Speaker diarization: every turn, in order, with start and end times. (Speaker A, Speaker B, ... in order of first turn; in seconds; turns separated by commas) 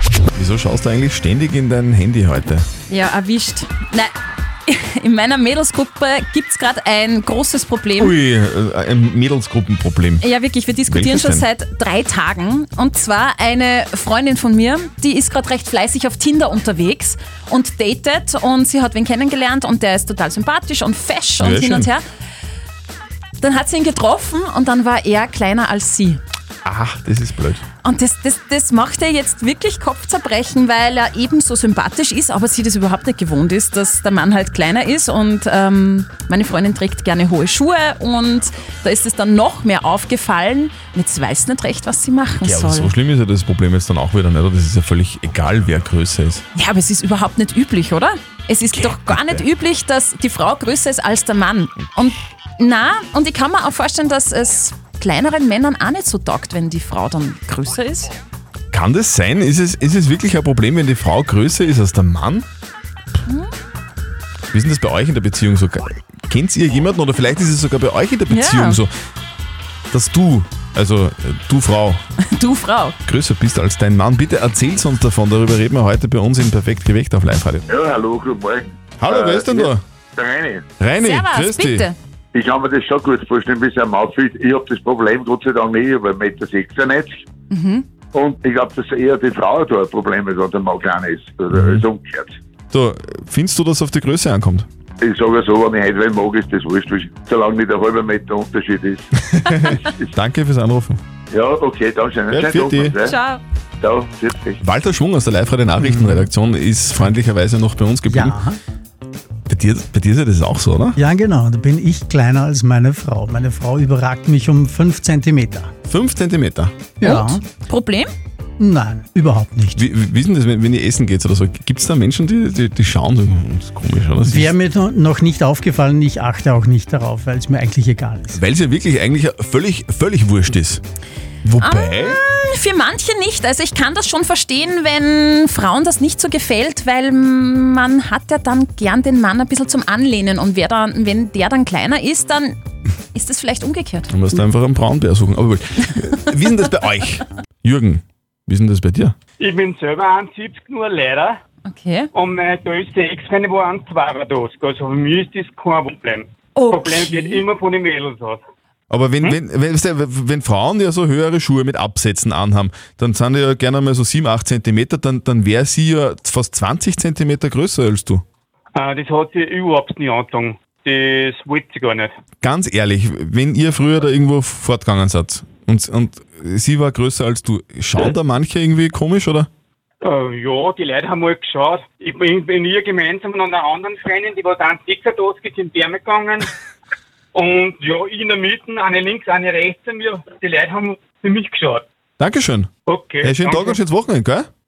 Speaker A: 0.3-2.6, Speaker B: 2.9-4.1, Speaker B: 4.7-8.1, Speaker A: 8.0-10.2, Speaker B: 10.2-22.0, Speaker A: 10.9-11.4, Speaker A: 21.4-21.9, Speaker B: 23.4-26.2, Speaker A: 26.6-27.6, Speaker B: 27.8-42.9, Speaker A: 42.4-46.4, Speaker B: 46.5-58.1, Speaker A: 48.7-49.4, Speaker A: 58.7-62.5, Speaker A: 64.5-68.9, Speaker B: 68.3-68.8, Speaker A: 69.9-72.0, Speaker B: 72.3-73.0, Speaker A: 73.0-77.6, Speaker C: 77.7-80.6, Speaker A: 79.0-79.8, Speaker A: 80.8-81.9, Speaker B: 81.0-81.9, Speaker C: 82.3-87.2, Speaker B: 87.5-87.8, Speaker C: 88.1-92.3, Speaker A: 91.5-91.8, Speaker A: 92.7-94.7, Speaker C: 95.0-99.0, Speaker A: 99.3-101.0, Speaker C: 99.7-100.0, Speaker C: 101.3-103.2, Speaker A: 102.3-103.0, Speaker B: 103.0-103.4, Speaker C: 103.8-104.6, Speaker A: 104.6-108.4, Speaker D: 108.0-108.6, Speaker A: 109.5-111.0, Speaker D: 111.0-115.7, Speaker A: 115.9-116.8, Speaker D: 117.0-117.4, Speaker B: 117.0-118.1, Speaker D: 118.6-119.8, Speaker A: 119.7-124.5, Speaker D: 124.2-128.4, Speaker A: 128.3-130.8, Speaker A: 131.4-132.2, Speaker B: 131.6-142.6, Speaker B: 143.1-144.1, Speaker A: 144.1-149.1, Speaker E: 149.4-151.4, Speaker B: 151.7-152.1, Speaker E: 152.1-158.4, Speaker B: 156.5-157.4, Speaker A: 158.9-168.2, Speaker E: 168.7-172.1, Speaker A: 172.4-179.5, Speaker E: 180.0-186.5, Speaker E: 187.3-191.8, Speaker A: 192.2-192.7, Speaker E: 192.9-193.8, Speaker A: 193.2-194.5